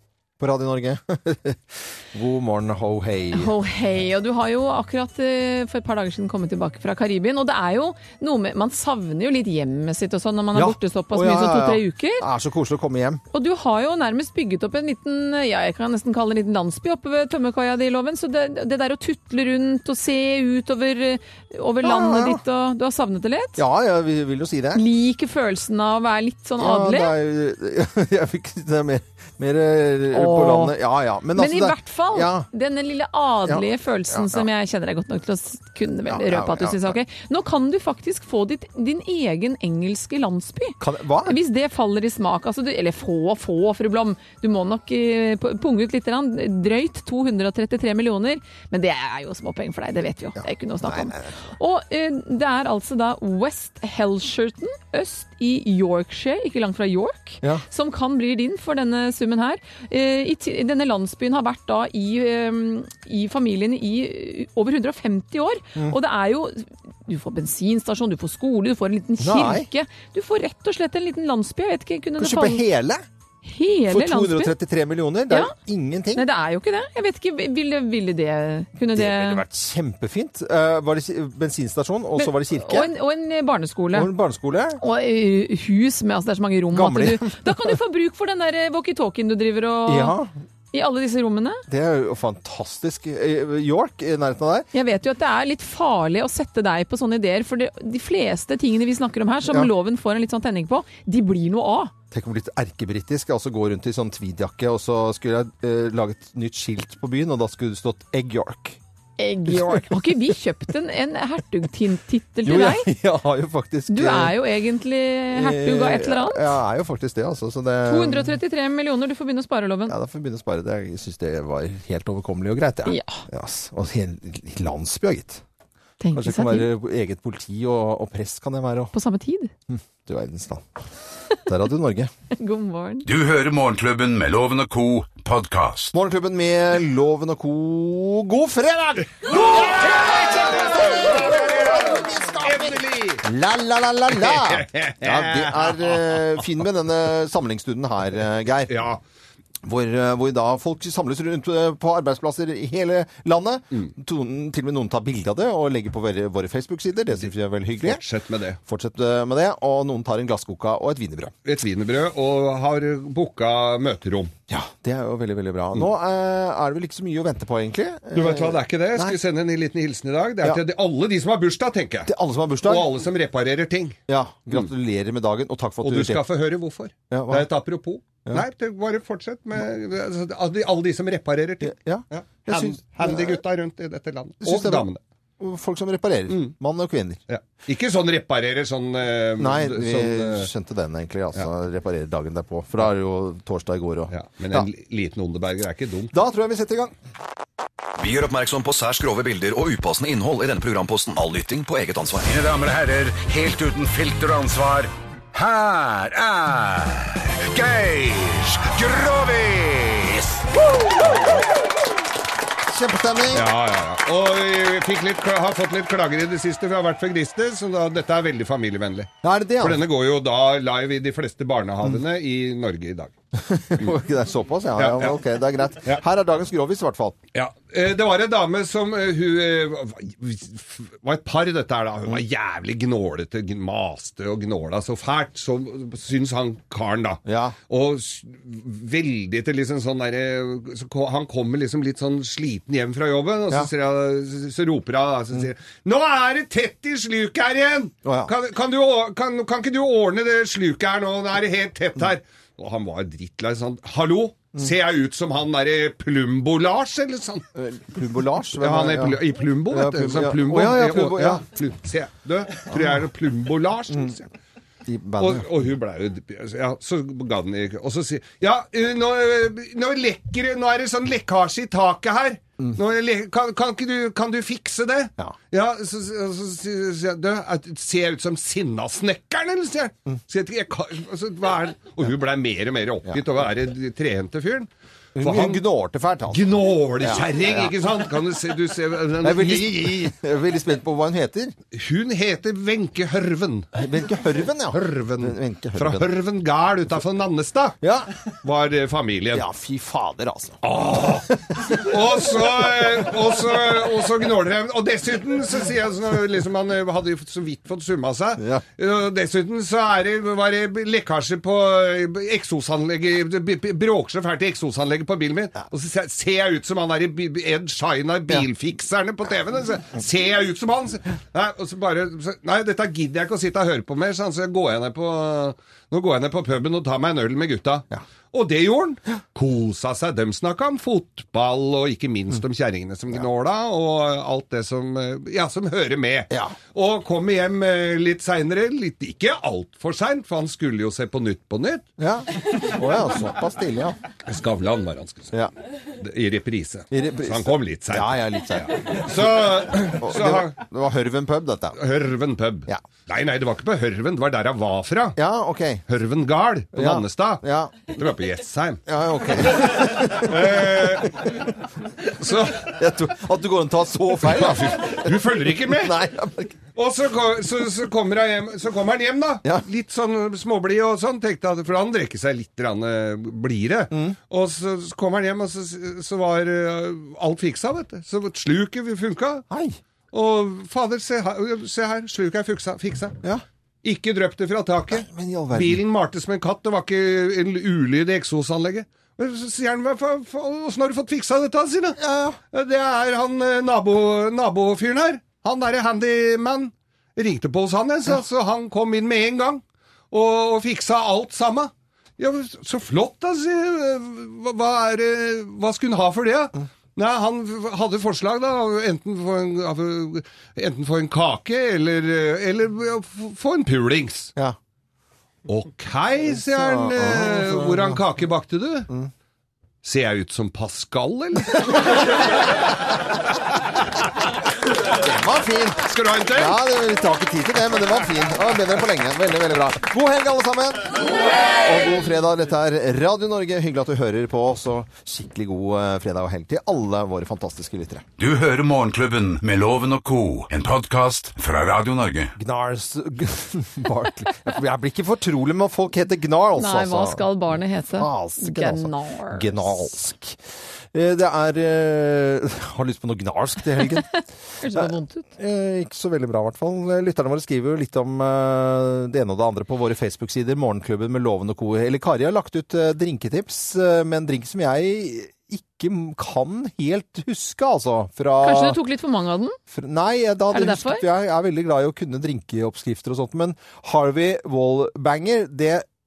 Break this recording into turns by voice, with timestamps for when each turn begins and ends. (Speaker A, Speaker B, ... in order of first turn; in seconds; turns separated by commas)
Speaker A: 0.4-3.5, Speaker B: 3.3-12.2, Speaker A: 10.5-13.2, Speaker B: 13.3-23.6, Speaker A: 21.8-22.4, Speaker A: 23.6-24.8, Speaker B: 24.7-27.1, Speaker A: 26.6-32.5, Speaker B: 30.1-30.7, Speaker B: 31.4-72.6, Speaker A: 33.5-34.5, Speaker A: 36.1-37.0, Speaker A: 40.8-41.4, Speaker A: 50.4-51.4, Speaker A: 69.2-69.7, Speaker A: 72.2-73.0, Speaker B: 73.4-74.5, Speaker A: 73.9-76.2, Speaker B: 76.2-79.4, Speaker A: 78.9-82.9, Speaker B: 82.2-84.1, Speaker A: 83.9-84.8, Speaker B: 84.8-90.2, Speaker A: 86.7-87.7, Speaker A: 89.9-90.3, Speaker B: 90.7-91.6, Speaker A: 91.7-94.7, Speaker B: 94.7-101.9, Speaker A: 102.1-108.8, Speaker B: 109.2-112.9, Speaker A: 109.5-109.9, Speaker A: 112.5-114.4, Speaker B: 113.9-116.5, Speaker A: 115.3-118.4, Speaker B: 117.9-120.0, Speaker A: 119.9-125.4, Speaker B: 122.9-123.2, Speaker B: 126.0-126.7, Speaker A: 126.1-128.9, Speaker B: 128.9-129.5, Speaker A: 129.7-130.7, Speaker A: 131.4-132.1, Speaker B: 132.4-133.1, Speaker C: 133.1-135.9, Speaker A: 135.9-148.9, Speaker D: 139.3-143.2, Speaker D: 144.2-146.1, Speaker D: 148.7-149.0, Speaker A: 149.6-158.0, Speaker D: 157.8-158.6, Speaker A: 158.6-161.3, Speaker D: 161.4-164.3, Speaker A: 164.5-169.2, Speaker D: 168.1-172.1, Speaker A: 172.1-173.0, Speaker D: 172.6-174.0, Speaker A: 174.1-176.2, Speaker D: 175.8-185.0, Speaker A: 177.1-177.5, Speaker A: 181.6-183.4, Speaker A: 184.4-184.9, Speaker A: 185.4-187.2, Speaker D: 187.3-190.5, Speaker A: 189.4-194.7, Speaker D: 194.1-196.1, Speaker A: 196.1-196.9, Speaker E: 198.0-202.3, Speaker C: 202.2-210.4, Speaker D: 211.0-211.4, Speaker A: 212.7-213.5, Speaker D: 213.3-223.1, Speaker A: 219.2-219.8, Speaker A: 223.3-227.2, Speaker D: 224.8-225.2, Speaker D: 227.3-257.5, Speaker A: 237.2-237.6, Speaker A: 248.0-248.3, Speaker A: 257.6-261.4, Speaker D: 258.6-264.2, Speaker A: 264.9-265.5, Speaker D: 265.2-285.6, Speaker A: 285.2-286.5, Speaker D: 286.3-290.0, Speaker A: 287.0-287.7, Speaker A: 289.2-291.5, Speaker D: 291.7-293.7, Speaker A: 293.8-296.1, Speaker D: 294.7-297.8, Speaker A: 297.8-298.1, Speaker D: 298.4-299.4, Speaker A: 299.3-300.6, Speaker D: 300.6-341.9, Speaker A: 336.3-336.6, Speaker A: 342.0-344.0, Speaker D: 344.2-345.3, Speaker D: 345.9-350.6, Speaker A: 346.9-349.3, Speaker A: 350.0-351.8, Speaker D: 351.8-355.2, Speaker A: 355.2-355.8, Speaker D: 355.9-358.8, Speaker A: 356.7-357.9, Speaker A: 358.9-360.6, Speaker D: 359.5-361.5, Speaker D: 362.1-362.7, Speaker A: 362.6-366.6, Speaker D: 364.2-366.0, Speaker D: 366.8-379.4, Speaker A: 373.9-374.2, Speaker A: 379.5-379.8, Speaker D: 380.1-383.2, Speaker D: 383.8-392.0, Speaker A: 384.9-385.8, Speaker A: 392.0-392.4, Speaker D: 392.5-414.3, Speaker D: 415.5-418.9, Speaker A: 416.3-418.0, Speaker D: 419.8-422.3, Speaker A: 424.9-438.0, Speaker D: 425.8-426.6, Speaker C: 438.2-442.3, Speaker A: 442.4-447.3, Speaker B: 446.6-449.9, Speaker A: 447.9-450.4, Speaker A: 450.9-454.1, Speaker B: 454.6-455.3, Speaker A: 454.7-468.8, Speaker B: 468.4-469.6, Speaker A: 469.7-475.9, Speaker B: 470.5-471.1